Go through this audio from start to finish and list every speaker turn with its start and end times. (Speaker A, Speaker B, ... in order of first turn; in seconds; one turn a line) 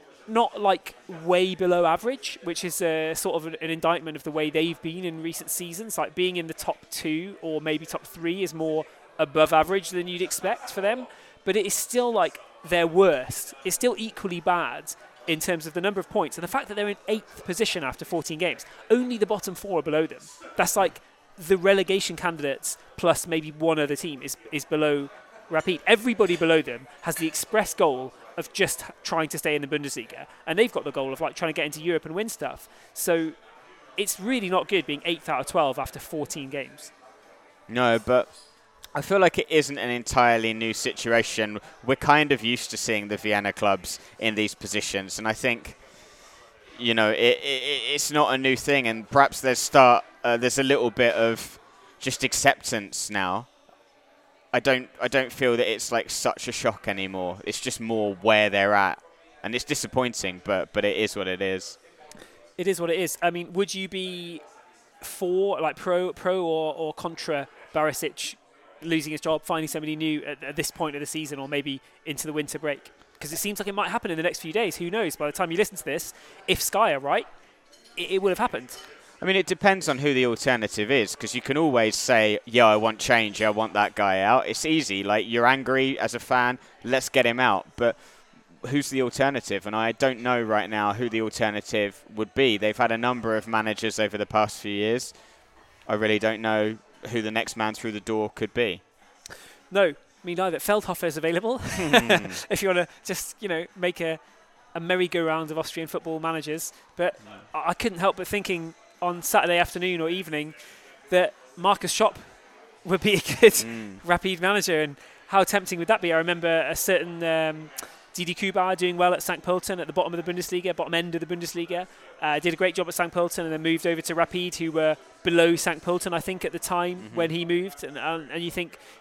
Speaker A: 0.3-33.4
Speaker A: 34.0-36.9
Speaker B: 37.7-38.3
Speaker B: 38.9-45.8
Speaker B: 46.8-53.5
Speaker B: 54.5-61.8
Speaker A: 62.6-64.4
Speaker A: 65.0-77.3
Speaker A: 78.0-78.8
Speaker B: 79.2-88.0
Speaker B: 88.6-95.1
Speaker B: 95.9-98.8
Speaker A: 99.7-104.2
Speaker B: 101.8-102.4
Speaker A: 104.7-110.6
Speaker A: 111.1-128.8
Speaker B: 113.6-114.0
Speaker B: 127.0-127.3